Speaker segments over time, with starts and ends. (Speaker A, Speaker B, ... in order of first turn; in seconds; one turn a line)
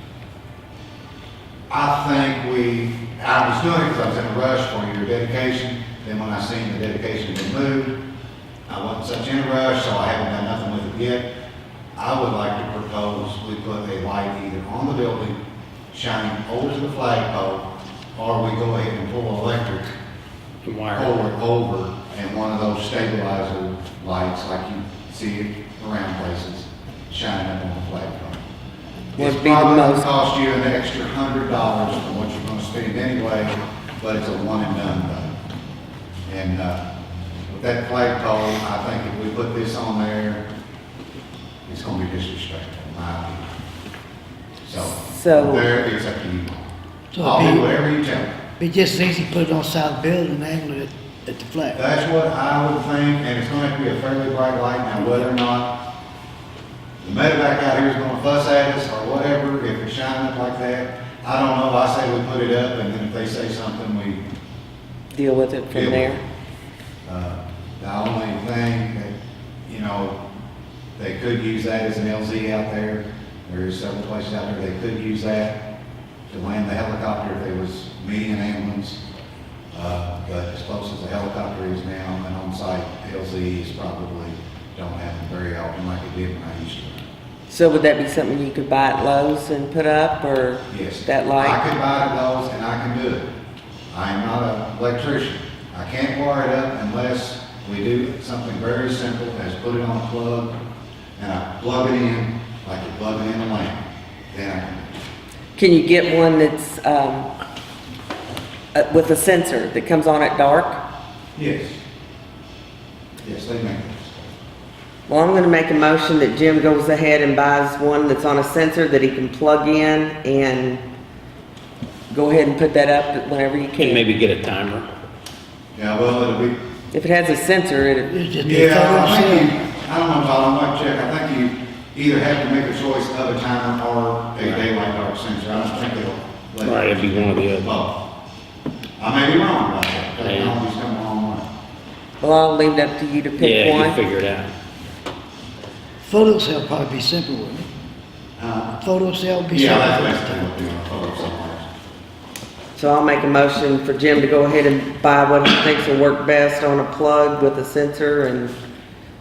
Speaker A: 1.7-8.0
Speaker A: 8.7-11.3
Speaker A: 12.0-15.4
Speaker A: 15.9-19.9
Speaker B: 20.6-21.2
Speaker A: 20.9-28.4
Speaker C: 29.2-30.1
Speaker A: 29.2-35.3
Speaker A: 36.3-36.8
Speaker A: 37.5-40.4
Speaker A: 41.7-43.5
Speaker A: 44.6-48.4
Speaker C: 44.9-45.7
Speaker D: 47.1-47.7
Speaker D: 48.6-51.8
Speaker A: 51.8-55.8
Speaker A: 57.0-64.2
Speaker C: 65.1-66.2
Speaker A: 65.7-66.2
Speaker A: 67.1-69.1
Speaker A: 69.7-70.2
Speaker A: 71.0-75.6
Speaker A: 76.3-79.0
Speaker A: 79.7-87.0
Speaker C: 87.5-91.6
Speaker A: 90.7-93.3
Speaker A: 93.9-100.5
Speaker A: 101.2-104.9
Speaker C: 105.6-107.3
Speaker C: 108.7-110.8
Speaker A: 111.4-111.8
Speaker A: 113.2-114.1
Speaker C: 115.1-120.8
Speaker C: 122.1-124.0
Speaker B: 123.8-124.9
Speaker A: 125.8-126.6
Speaker C: 126.9-128.1
Speaker D: 128.1-129.5
Speaker A: 128.4-138.1
Speaker B: 134.4-134.7
Speaker B: 136.6-137.7
Speaker A: 139.0-141.5
Speaker B: 140.2-140.6
Speaker C: 142.2-144.0
Speaker B: 143.4-144.5
Speaker D: 146.0-147.7
Speaker A: 148.4-148.8
Speaker D: 148.8-150.7
Speaker A: 149.5-151.7
Speaker C: 152.8-158.6